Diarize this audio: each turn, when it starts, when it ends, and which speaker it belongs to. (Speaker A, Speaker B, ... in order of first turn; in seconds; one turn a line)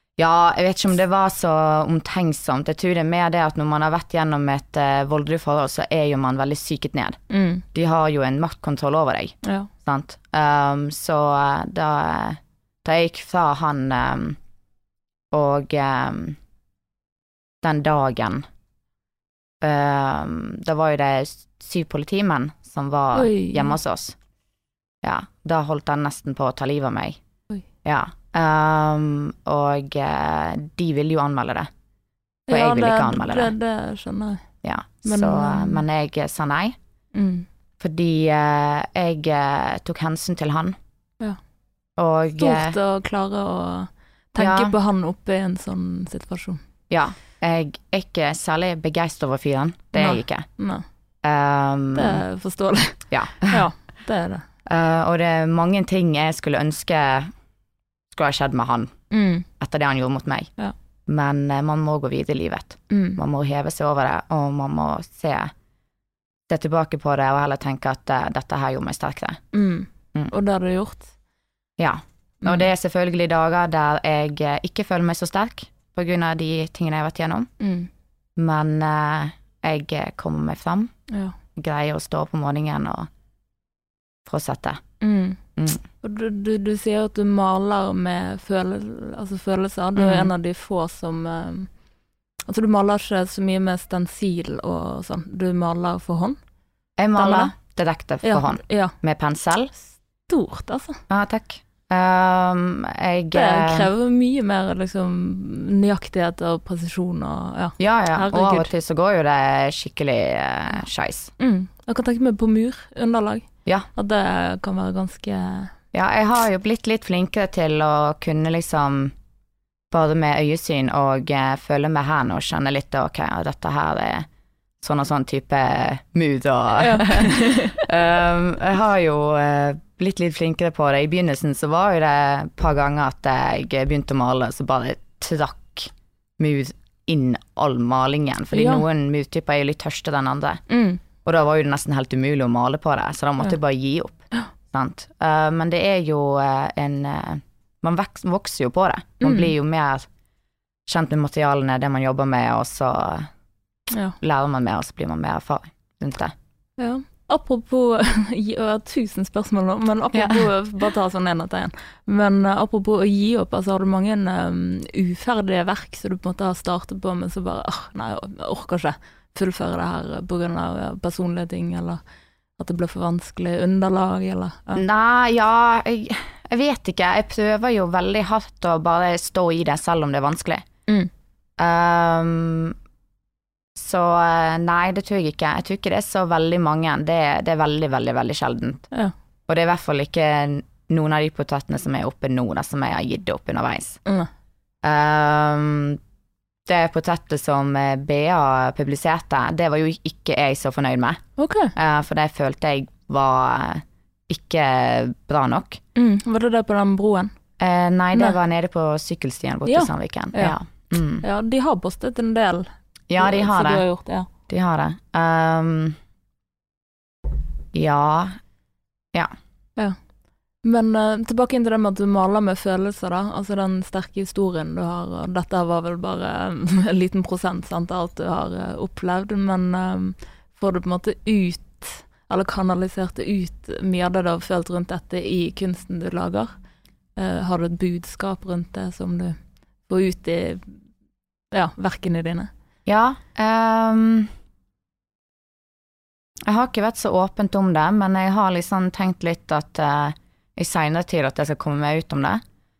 Speaker A: 0.2-7.2
Speaker B: 7.3-7.6
Speaker A: 7.7-14.4
Speaker B: 9.4-9.7
Speaker A: 15.3-16.4
Speaker A: 17.6-18.4
Speaker A: 19.6-24.1
Speaker B: 23.1-23.8
Speaker A: 25.0-27.2
Speaker A: 27.8-31.7
Speaker B: 32.5-34.4
Speaker A: 32.5-33.5
Speaker A: 34.6-36.8
Speaker B: 35.0-35.8
Speaker B: 37.1-37.5
Speaker A: 37.8-40.8
Speaker A: 42.0-42.8
Speaker B: 42.4-46.6
Speaker A: 44.4-44.8
Speaker A: 46.9-50.5
Speaker B: 50.0-50.8
Speaker A: 51.2-52.2
Speaker B: 51.9-54.4
Speaker A: 53.1-53.7
Speaker A: 54.6-57.3
Speaker A: 58.1-58.9
Speaker B: 59.1-59.5
Speaker A: 59.6-60.5
Speaker A: 61.1-65.5
Speaker B: 62.9-63.2
Speaker A: 66.5-69.4
Speaker B: 69.5-71.1
Speaker A: 71.8-77.5
Speaker B: 77.6-77.9
Speaker A: 78.3-80.9
Speaker B: 81.1-81.3
Speaker A: 81.5-83.1
Speaker A: 84.2-84.8
Speaker B: 85.0-85.4
Speaker A: 85.5-85.8
Speaker B: 86.0-91.7
Speaker A: 90.0-90.3
Speaker B: 92.5-96.4
Speaker A: 97.0-99.7
Speaker B: 97.1-97.5
Speaker B: 98.2-98.9
Speaker B: 100.3-101.0
Speaker A: 101.1-103.9
Speaker B: 103.3-108.7
Speaker A: 107.8-111.3
Speaker B: 111.4-115.7
Speaker A: 115.9-119.1
Speaker A: 119.9-124.2
Speaker A: 124.8-140.6
Speaker B: 126.8-127.9
Speaker B: 138.5-138.8
Speaker B: 140.7-141.0
Speaker A: 141.2-150.1
Speaker B: 149.2-149.5
Speaker A: 150.8-153.3
Speaker B: 153.9-154.2
Speaker A: 154.2-156.3
Speaker B: 156.8-172.0
Speaker A: 160.1-160.5
Speaker B: 172.6-174.8
Speaker A: 174.8-180.6
Speaker A: 181.6-182.8
Speaker A: 183.8-188.9
Speaker A: 189.5-194.0
Speaker A: 194.8-196.0
Speaker A: 196.7-201.2
Speaker B: 201.4-201.7
Speaker A: 201.7-205.8
Speaker B: 205.9-207.3
Speaker A: 207.6-211.2
Speaker B: 209.7-210.6
Speaker B: 211.2-214.3
Speaker A: 213.1-213.8
Speaker A: 214.5-216.0
Speaker A: 217.7-218.4
Speaker B: 220.6-236.5
Speaker B: 237.2-240.7
Speaker B: 241.5-242.5
Speaker A: 242.8-244.3
Speaker A: 246.4-252.4